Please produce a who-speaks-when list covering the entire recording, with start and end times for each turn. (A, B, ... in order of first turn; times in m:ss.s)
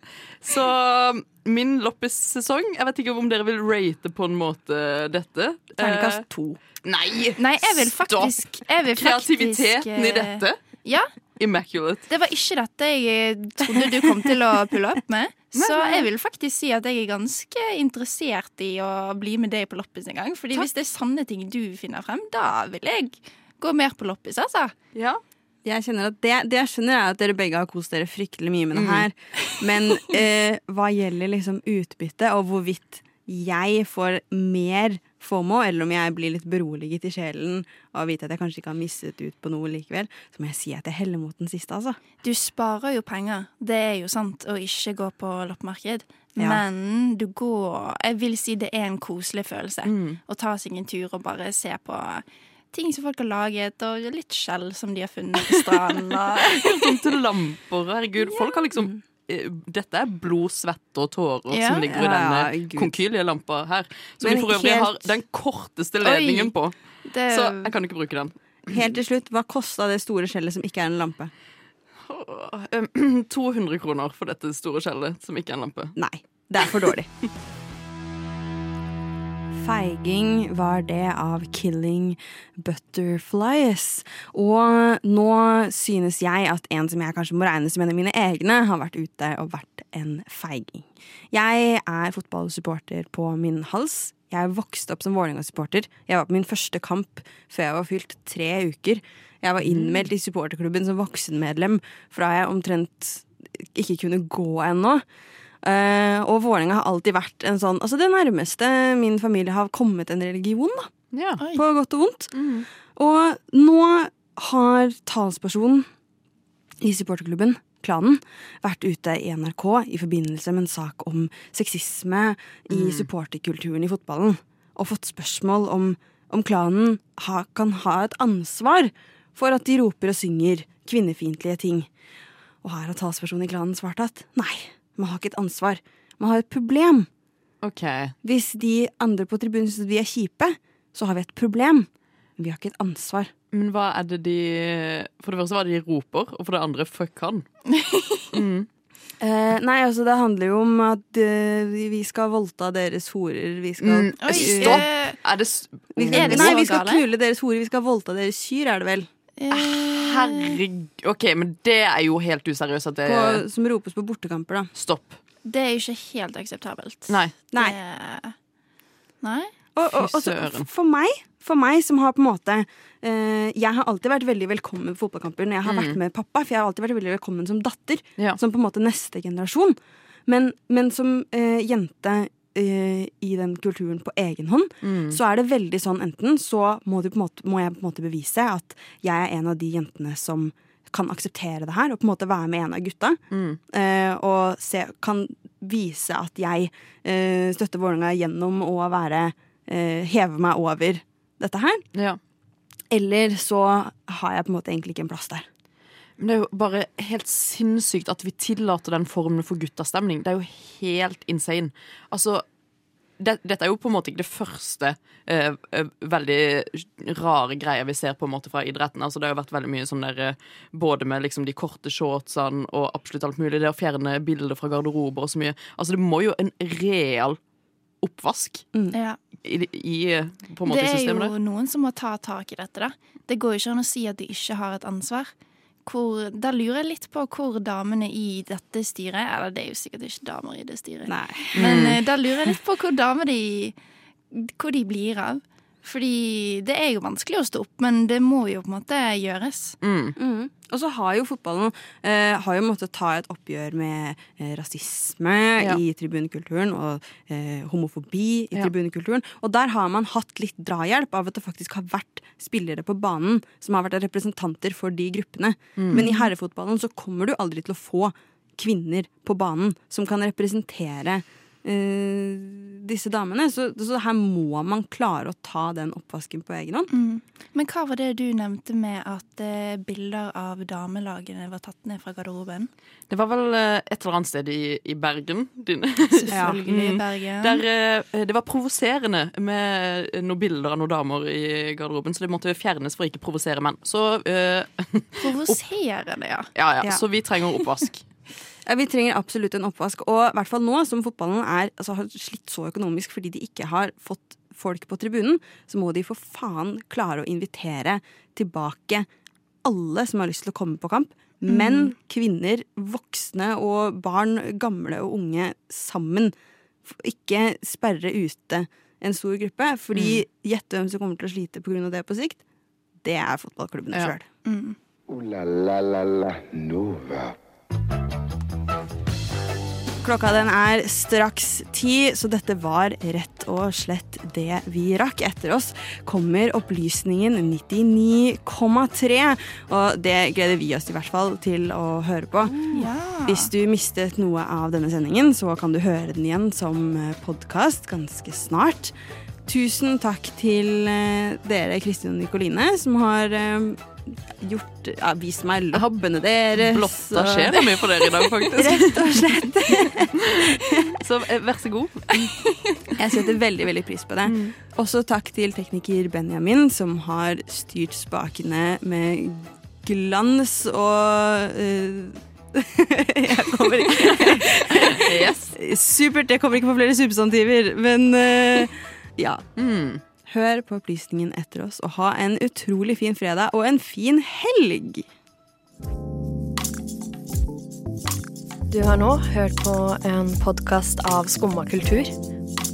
0:00.4-0:06.2 A
0:05.8-0:06.6 B
0:06.8-0:10.6 A
0:07.4-0:11.1 C
0:11.4-0:12.0 A
0:12.1-0:24.7 C
0:15.5-0:16.1 A
0:24.9-0:25.2 A
0:25.6-0:42.0 B
0:28.7-0:29.6 A
0:42.2-0:56.6 C
0:49.8-0:50.2 A
0:56.5-1:06.7 A
1:01.5-1:01.9 C
1:01.9-1:03.0 B
1:04.2-1:05.1 B
1:06.0-1:06.5 C
1:07.0-1:07.7 C
1:07.3-1:08.8 A
1:08.7-1:11.3 B
1:12.0-1:16.0 A
1:16.0-1:17.1 B
1:19.5-1:45.0 B
1:39.6-1:40.1 A
1:45.6-1:50.9 B
1:51.1-1:51.4 A
1:51.5-1:55.9 B
1:52.3-1:52.6 A
1:56.8-2:11.9 B
2:02.7-2:03.1 A
2:12.6-2:17.1 B
2:17.6-2:18.1 A
2:18.2-2:23.3 B
2:23.5-2:27.5 A
2:27.7-2:28.3 C
2:28.3-2:28.7 A
2:29.2-2:34.9 B
2:33.8-2:36.5 A
2:34.2-2:35.2 C
2:35.9-2:39.1 B
2:36.1-2:37.0 C
2:39.4-2:40.6 C
2:39.5-2:43.4 A
2:43.0-2:44.7 B
2:44.8-2:45.2 A
2:45.4-2:48.3 C
2:47.5-2:47.8 B
2:49.2-2:49.5 C
2:49.7-3:13.2 B
2:49.9-2:50.7 A
2:55.6-2:56.0 A
3:04.8-3:05.2 A
3:13.3-3:13.6 A
3:13.7-3:21.8 B
3:22.9-3:25.4 B
3:26.2-3:32.4 A
3:33.2-3:47.4 A
3:48.0-3:48.7 A
3:48.9-3:49.2 C
3:49.4-3:51.3 A
3:50.6-3:55.3 C
3:55.8-4:03.8 C
4:01.1-4:02.0 B
4:01.6-4:02.0 A
4:04.3-4:09.8 C
4:09.8-4:10.1 A
4:10.2-4:36.9 B
4:25.8-4:26.0 A
4:25.9-4:26.3 C
4:36.9-4:42.7 C
4:43.1-4:55.6 A
4:46.1-4:47.6 C
4:46.3-4:46.6 B
4:55.2-4:56.5 C
4:56.5-4:58.0 A
4:58.6-5:09.1 B
5:09.6-5:16.3 B
5:11.5-5:11.9 C
5:16.8-5:22.4 B
5:19.9-5:20.2 A
5:23.0-5:24.3 B
5:24.4-5:24.8 C
5:25.1-5:27.4 D
5:30.0-5:42.7 B
5:42.7-5:43.5 C
5:43.2-5:48.9 B
5:49.4-6:01.0 B
5:56.6-5:59.4 A
6:00.2-6:02.3 A
6:02.2-6:02.7 C
6:03.0-6:19.4 B
6:04.2-6:04.5 A
6:14.0-6:15.5 A
6:19.6-6:20.0 A
6:20.2-6:25.1 B
6:28.7-6:32.1 E